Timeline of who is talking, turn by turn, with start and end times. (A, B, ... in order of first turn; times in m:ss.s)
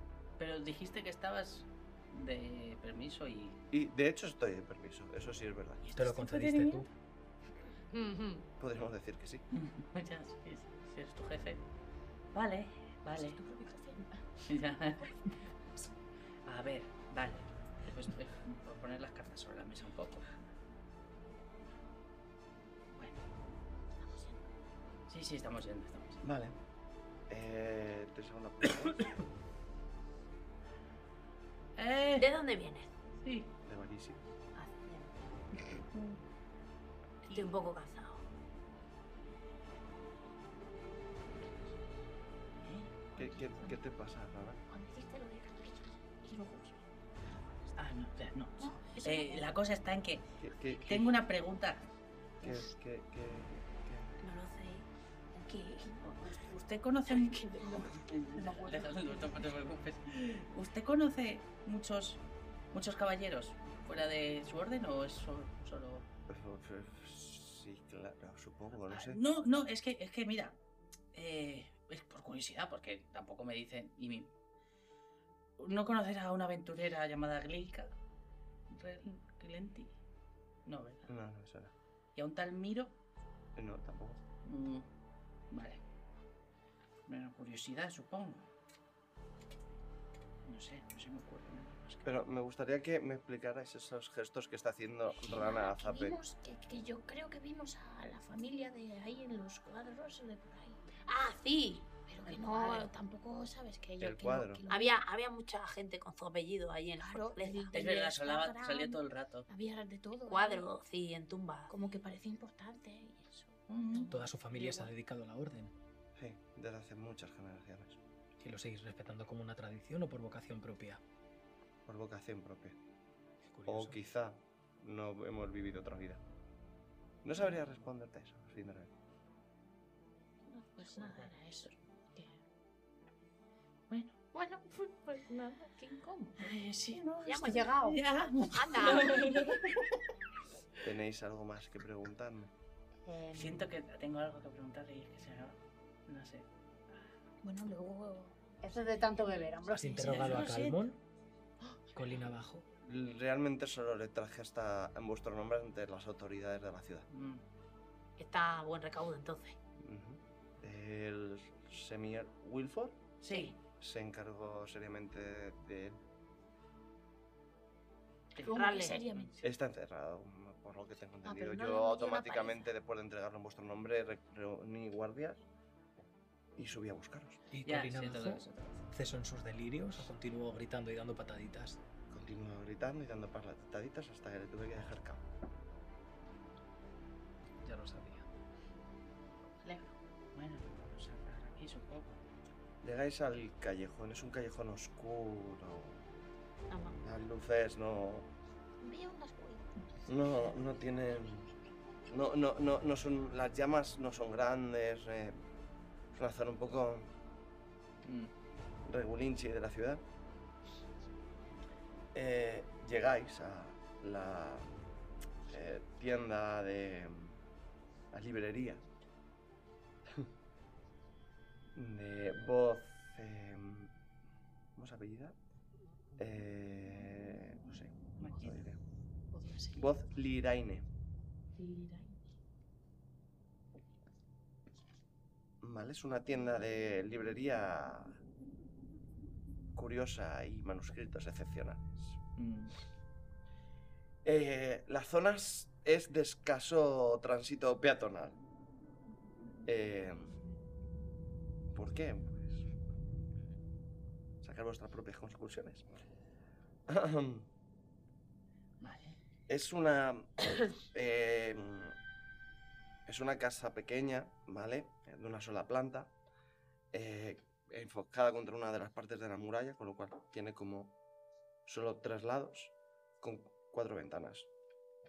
0:00.4-0:03.6 A
0:03.7-0:05.8 B
0:05.8-0:06.8 A
0:06.0-0:06.9 C
0:07.9-0:08.4 D
0:08.6-0:09.4 B
0:09.5-0:11.6 A
0:12.3-0:13.4 A
0:13.1-0:14.2 E
0:14.4-0:15.1 A
0:16.4-0:20.5 A
0:22.9-0:23.2 A
0:24.0-0:24.4 E
0:25.1-0:26.2 A
0:26.2-0:26.6 B
0:27.3-0:29.1 B
0:31.8-0:32.2 A
0:32.2-0:32.9 D
0:33.2-0:33.5 A
0:33.6-0:34.2 B
0:34.6-0:35.2 D
0:35.9-0:36.2 A
0:37.3-0:38.2 D
0:42.6-0:43.2 A
0:43.2-0:44.6 B
0:43.4-0:43.8 E
0:44.7-0:46.8 E
0:47.8-0:50.3 A
0:48.6-0:49.5 E
0:50.4-0:51.0 B
0:50.8-0:51.8 A
0:52.4-0:54.1 B
0:54.2-0:56.6 D
0:56.5-1:02.2 A
0:57.1-0:59.5 D
1:02.7-1:06.0 A
1:06.3-1:09.2 B
1:08.8-1:10.6 A
1:11.1-1:14.3 A
1:15.6-1:17.9 A
1:18.7-1:19.9 A
1:20.6-1:21.1 A
1:21.1-1:21.7 B
1:22.1-1:22.9 A
1:23.6-1:24.2 B
1:24.4-1:24.8 A
1:25.5-1:25.8 A
1:27.1-1:28.5 A
1:30.4-1:32.2 A
1:32.0-1:36.2 B
1:35.3-1:40.8 E
1:41.0-1:42.9 D
1:42.1-1:45.0 E
1:44.0-1:44.6 B
1:44.7-1:47.9 D
1:47.0-1:50.7 E
1:47.7-1:49.4 A
1:50.3-1:51.7 D
1:51.7-1:54.9 E
1:53.7-1:54.1 A
1:54.1-1:55.7 C
1:56.2-1:58.0 B
1:58.4-2:01.0 C
2:01.8-2:02.8 B
2:03.4-2:04.0 C
2:03.6-2:06.2 B
2:07.2-2:08.9 B
2:10.5-2:12.4 E
2:10.8-2:11.7 A
2:13.9-2:14.2 A
2:14.3-2:16.5 E
2:16.4-2:19.4 A
2:17.2-2:18.0 D
2:18.5-2:19.4 D
2:19.1-2:19.4 E
2:20.8-2:22.5 B
2:23.0-2:23.6 D
2:23.3-2:27.1 A
2:27.4-2:29.6 E
2:28.6-2:30.2 D
2:29.8-2:31.0 C
2:30.0-2:30.8 A
2:31.9-2:32.6 C
2:32.8-2:37.0 B
2:37.1-2:37.4 A
2:38.2-2:39.6 D
2:39.8-2:43.0 B
2:43.2-2:43.5 A
2:43.3-2:43.5 D
2:43.8-2:46.0 B
2:48.3-2:49.3 A
2:48.4-2:49.4 E
2:48.5-2:49.0 D
2:49.4-2:55.4 B
2:51.3-2:52.6 D
2:51.3-2:52.2 E
2:56.6-2:57.4 B
2:57.5-3:01.8 C
2:57.6-2:58.8 A
3:02.1-3:05.2 B
3:07.6-3:08.2 C
3:09.6-3:09.9 E
3:10.3-3:12.2 A
3:12.8-3:16.0 B
3:16.7-3:17.0 D
3:17.0-3:18.3 B
3:18.8-3:20.0 E
3:20.1-3:21.5 B
3:22.1-3:25.4 B
3:26.1-3:27.1 B
3:28.0-3:28.3 A
3:28.8-3:30.0 B
3:32.1-3:34.7 B
3:35.5-3:37.4 B
3:38.1-3:38.8 B
3:41.7-3:43.9 B
3:44.8-3:45.3 B
3:46.2-3:48.8 B
3:48.2-3:48.6 A
3:49.3-3:49.9 E
3:49.7-3:50.9 B
3:51.6-3:52.2 E
3:55.6-3:58.2 B
3:59.7-4:02.2 B
4:02.4-4:02.7 A
4:04.2-4:08.4 B
4:09.6-4:10.3 B
4:11.7-4:12.7 B
4:14.4-4:16.0 B
4:16.9-4:17.5 B
4:18.8-4:19.2 A
4:19.5-4:22.0 B
4:23.0-4:26.1 B
4:26.9-4:30.9 B
4:31.6-4:34.5 B